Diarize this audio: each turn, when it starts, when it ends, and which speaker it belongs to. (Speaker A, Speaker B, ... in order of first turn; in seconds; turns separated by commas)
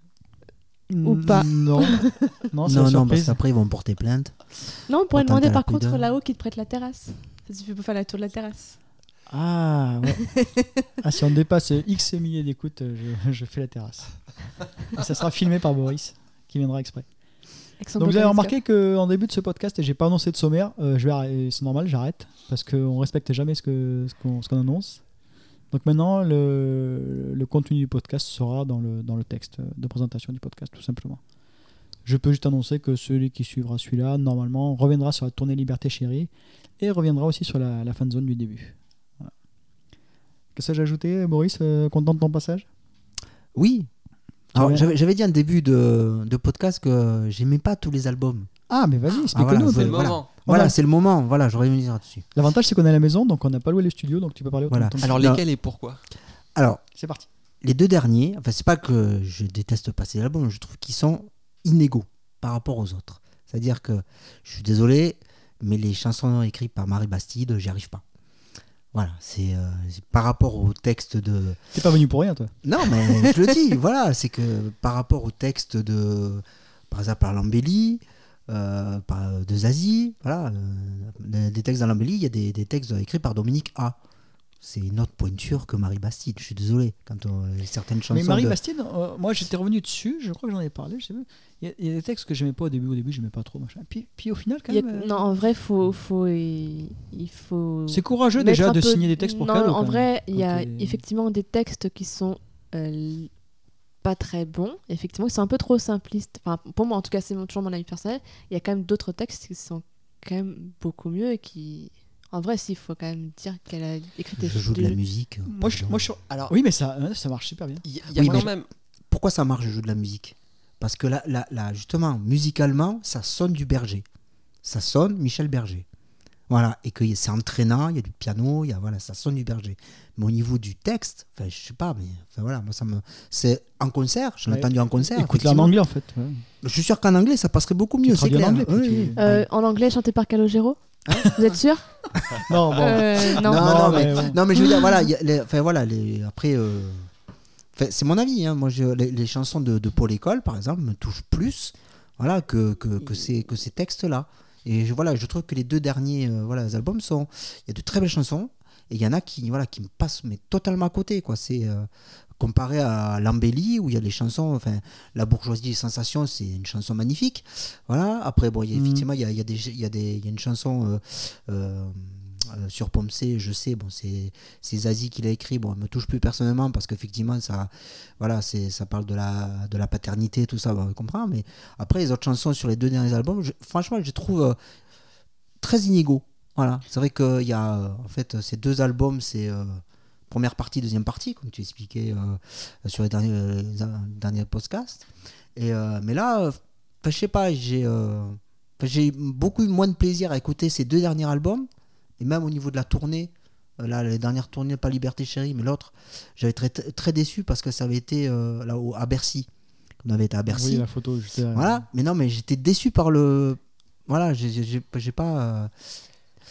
Speaker A: 0.9-3.4, Speaker B: 1.0-2.1, Speaker C: 2.6-6.0, Speaker B: 4.9-8.8, Speaker A: 9.3-10.2, Speaker A: 11.0-14.3, Speaker A: 14.9-17.1, Speaker B: 17.8-18.6, Speaker A: 18.0-25.0, Speaker A: 25.7-31.2, Speaker A: 32.0-39.3, Speaker A: 40.5-42.6, Speaker C: 43.5-43.9, Speaker C: 44.5-48.5, Speaker A: 44.5-44.9, Speaker A: 48.7-50.7, Speaker D: 49.1-50.3, Speaker C: 49.3-52.2, Speaker A: 52.3-55.1, Speaker C: 54.7-55.4, Speaker D: 55.0-56.0, Speaker C: 56.5-56.8, Speaker A: 56.9-57.3, Speaker C: 57.6-68.0, Speaker C: 68.9-71.6, Speaker A: 71.7-72.5, Speaker C: 72.6-84.0, Speaker C: 84.6-88.6, Speaker A: 88.1-95.2, Speaker B: 94.7-103.3, Speaker A: 97.9-101.0, Speaker B: 104.0-115.0, Speaker C: 114.3-116.1, Speaker A: 115.5-118.5, Speaker D: 117.8-118.7, Speaker C: 118.1-118.5, Speaker C: 119.1-124.0, Speaker C: 124.6-125.8, Speaker C: 126.5-135.7, Speaker A: 134.5-136.4, Speaker C: 136.6-139.4, Speaker A: 138.0-139.2, Speaker B: 139.2-141.8, Speaker C: 141.1-141.6, Speaker C: 142.2-147.1, Speaker A: 142.4-144.4, Speaker B: 142.8-144.9, Speaker C: 147.7-184.6, Speaker A: 168.7-169.1, Speaker C: 185.6-201.7, Speaker C: 202.2-209.5, Speaker C: 210.0-210.8, Speaker A: 210.5-211.8, Speaker C: 211.5-216.0